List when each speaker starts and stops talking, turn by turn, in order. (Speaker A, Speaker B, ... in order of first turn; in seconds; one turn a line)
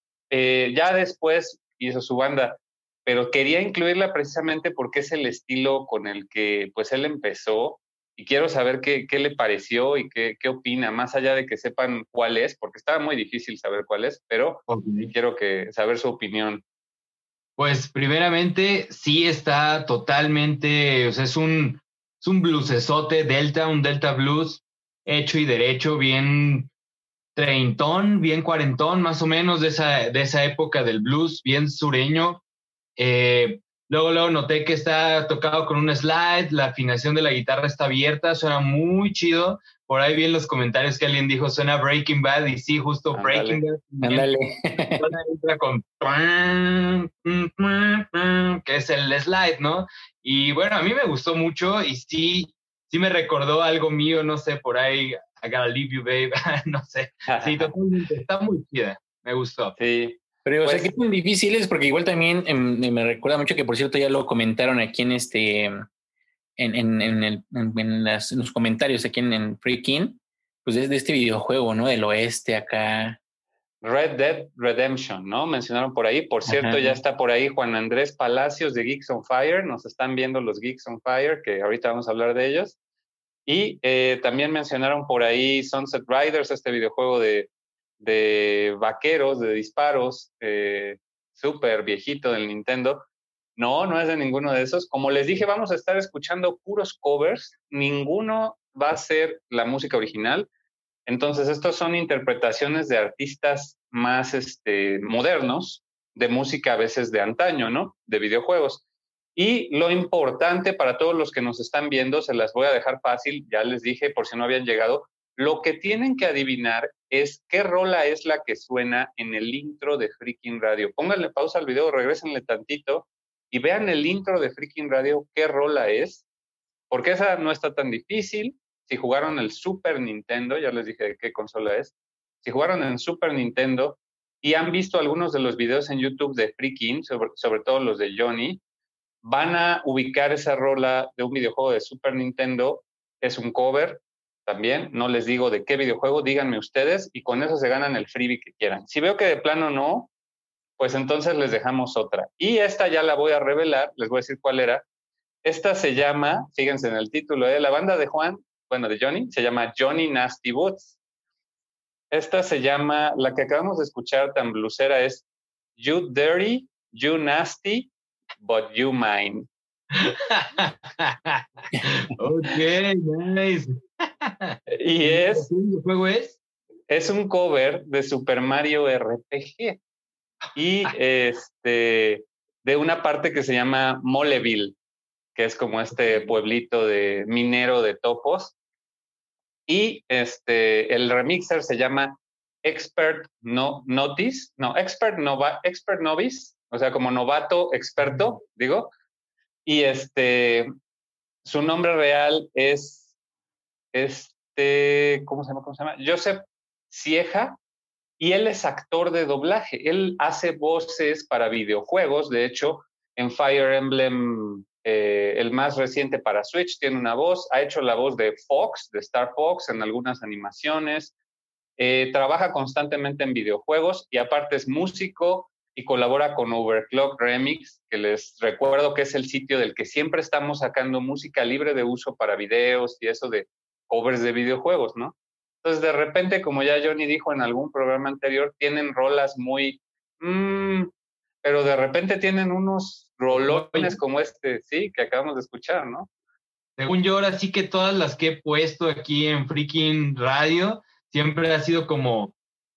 Speaker A: 0.3-16.6
Speaker B: 14.7-15.1
Speaker B: 17.6-26.7
Speaker B: 27.4-32.4
Speaker B: 33.0-44.3
Speaker A: 43.1-43.6
Speaker C: 44.0-45.0
Speaker B: 45.0-59.8
Speaker A: 57.3-57.7
Speaker A: 59.8-61.0
Speaker C: 60.5-65.9
Speaker C: 66.6-73.2
Speaker A: 73.8-82.8
Speaker C: 76.5-77.0
Speaker A: 83.5-93.0
Speaker A: 93.6-100.5
Speaker A: 101.1-108.8
Speaker A: 109.3-126.2
Speaker A: 126.9-138.6
Speaker A: 139.2-150.1
Speaker A: 150.8-154.8
Speaker A: 155.4-161.0
Speaker A: 162.1-165.3
Speaker A: 165.8-169.5
Speaker B: 169.9-176.4
Speaker C: 171.7-172.1
Speaker A: 174.7-175.5
Speaker A: 176.9-179.8
Speaker A: 180.6-184.8
Speaker A: 185.3-188.6
Speaker A: 189.7-198.9
Speaker A: 199.7-200.7
Speaker A: 201.4-203.1
Speaker A: 203.9-207.6
Speaker A: 208.2-221.1
Speaker A: 221.8-240.9
Speaker A: 241.4-246.1
Speaker B: 243.3-244.0
Speaker B: 246.8-252.3